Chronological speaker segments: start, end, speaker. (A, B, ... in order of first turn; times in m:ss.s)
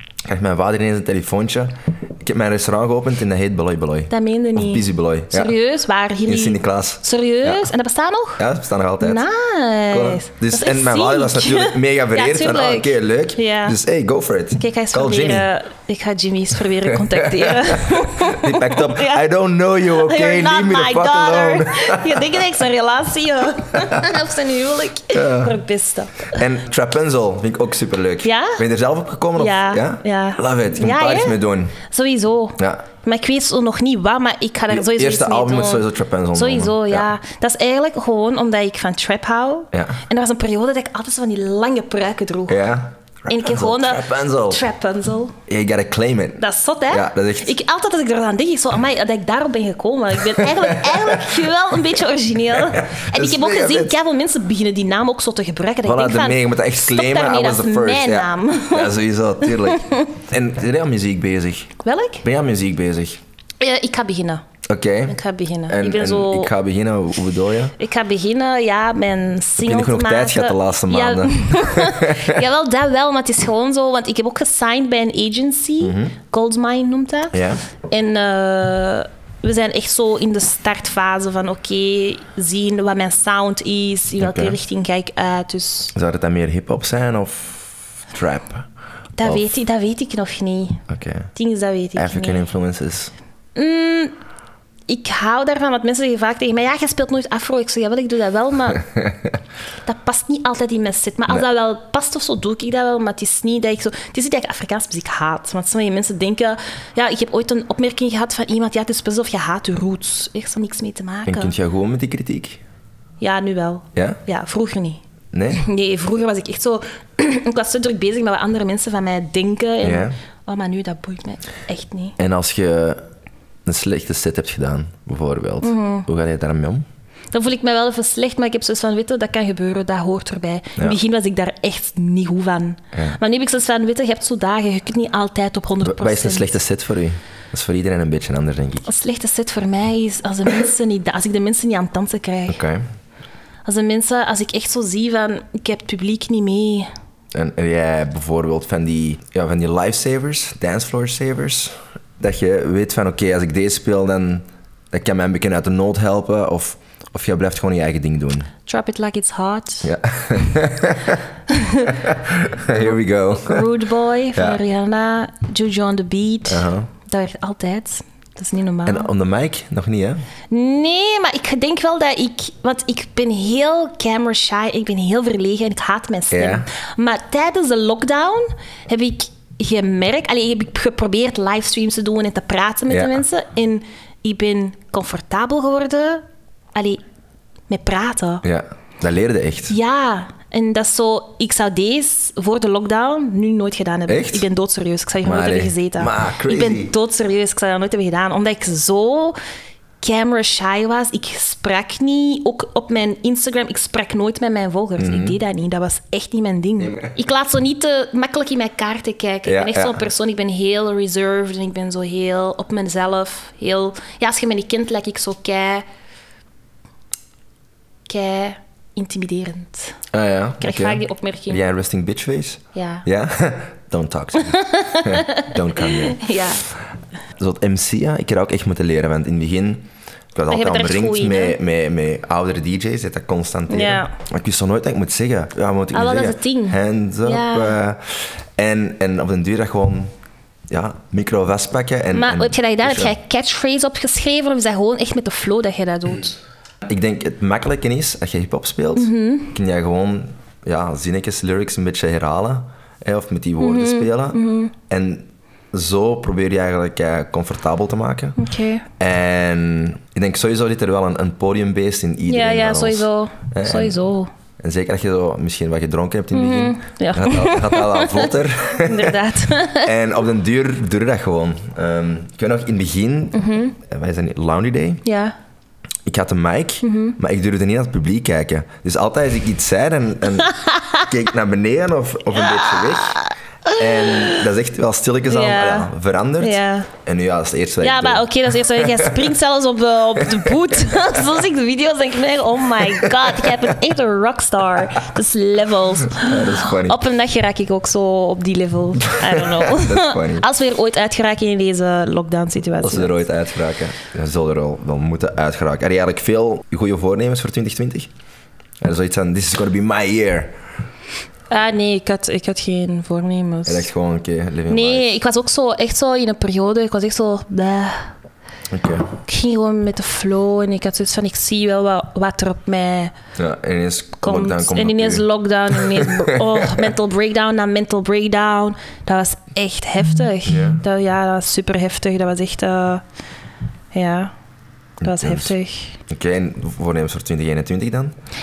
0:00.2-0:05.5 A
0:04.1-0:08.4 B
0:06.2-0:07.7 A
0:08.4-0:09.2 A
0:09.0-0:13.8 B
0:09.9-0:15.5 A
0:14.6-0:19.2 B
0:16.9-0:22.4 A
0:19.9-0:26.4 B
0:23.7-0:24.1 A
0:25.1-0:25.6 A
0:26.3-0:31.8 A
0:28.2-0:28.6 B
0:29.4-0:42.6 B
0:34.7-0:37.1 A
0:39.7-0:40.0 A
0:42.5-0:44.6 A
0:43.3-0:45.4 B
0:45.5-0:47.5 A
0:46.4-1:00.1 B
0:50.3-0:51.3 A
0:52.5-0:54.0 A
0:55.8-1:03.2 A
1:01.8-1:02.2 B
1:03.6-1:04.4 B
1:04.6-1:07.7 A
1:05.1-1:06.5 B
1:07.8-1:25.9 B
1:09.6-1:12.4 A
1:15.8-1:16.1 A
1:17.3-1:17.6 A
1:24.2-1:24.6 A
1:25.9-1:28.7 A
1:29.2-1:30.8 B
1:29.2-1:29.5 A
1:30.9-1:31.3 A
1:31.3-1:32.4 B
1:32.0-1:33.1 A
1:33.6-1:34.1 B
1:34.9-1:38.9 B
1:39.8-1:51.5 B
1:51.2-1:52.6 A
1:53.2-1:55.0 B
1:55.3-1:55.6 A
1:55.5-2:02.2 B
1:59.8-2:00.1 A
2:02.2-2:03.0 A
2:03.6-2:06.8 A
2:05.6-2:06.1 B
2:07.3-2:16.5 B
2:12.9-2:13.2 A
2:15.8-2:18.8 A
2:18.8-2:22.6 B
2:22.5-2:22.8 A
2:23.6-2:26.9 B
2:27.3-2:38.5 A
2:38.6-2:40.5 B
2:39.8-2:41.2 A
2:41.5-2:42.1 B
2:41.9-2:43.7 A
2:42.7-2:49.1 B
2:44.3-2:44.6 A
2:46.5-2:46.9 A
2:48.8-2:50.2 A
2:50.5-3:06.2 B
2:56.3-2:56.6 A
3:02.9-3:03.2 A
3:06.7-3:07.0 B
3:07.7-3:08.4 B
3:08.4-3:09.7 A
3:09.7-3:19.4 B
3:14.1-3:14.4 A
3:15.2-3:16.9 A
3:20.0-3:35.8 B
3:25.0-3:25.4 A
3:26.8-3:27.1 A
3:29.4-3:30.0 A
3:38.1-3:40.0 B
3:40.1-3:46.5 A
3:40.6-3:41.6 B
3:42.7-3:43.0 B
3:44.4-3:46.6 B
3:47.4-4:00.1 A
3:50.5-3:51.6 B
3:53.7-3:54.1 B
3:55.9-3:57.8 B
4:00.7-4:03.1 A
4:02.1-4:06.4 B
4:06.9-4:18.4 A
4:08.9-4:09.5 B
4:13.6-4:14.7 B
4:18.4-4:18.8 B
4:19.0-4:24.0 A
4:22.3-4:24.3 B
4:24.6-4:29.2 A
4:26.3-4:29.9 B
4:29.8-4:35.0 A
4:33.3-4:33.8 B
4:35.0-4:35.3 B
4:36.0-4:43.2 A
4:36.8-4:37.2 B
4:40.4-4:41.1 B
4:42.3-4:44.5 B
4:43.7-4:49.1 A
4:45.3-4:46.9 B
4:47.8-5:03.2 B
4:50.2-4:50.6 A
4:53.0-4:53.5 A
4:56.1-4:57.0 A
4:59.0-5:00.5 A
5:02.8-5:08.1 A
5:08.8-5:10.6 A
5:11.5-5:13.9 B
5:13.6-5:15.0 A
5:14.7-5:18.1 B
5:18.7-5:19.1 A
5:19.2-5:23.1 B
5:23.4-5:26.8 A
5:24.2-5:33.0 B
5:30.4-5:30.8 A
5:33.9-5:34.3 B
5:35.0-5:35.5 A
5:35.0-5:36.0 B
5:36.1-5:38.1 A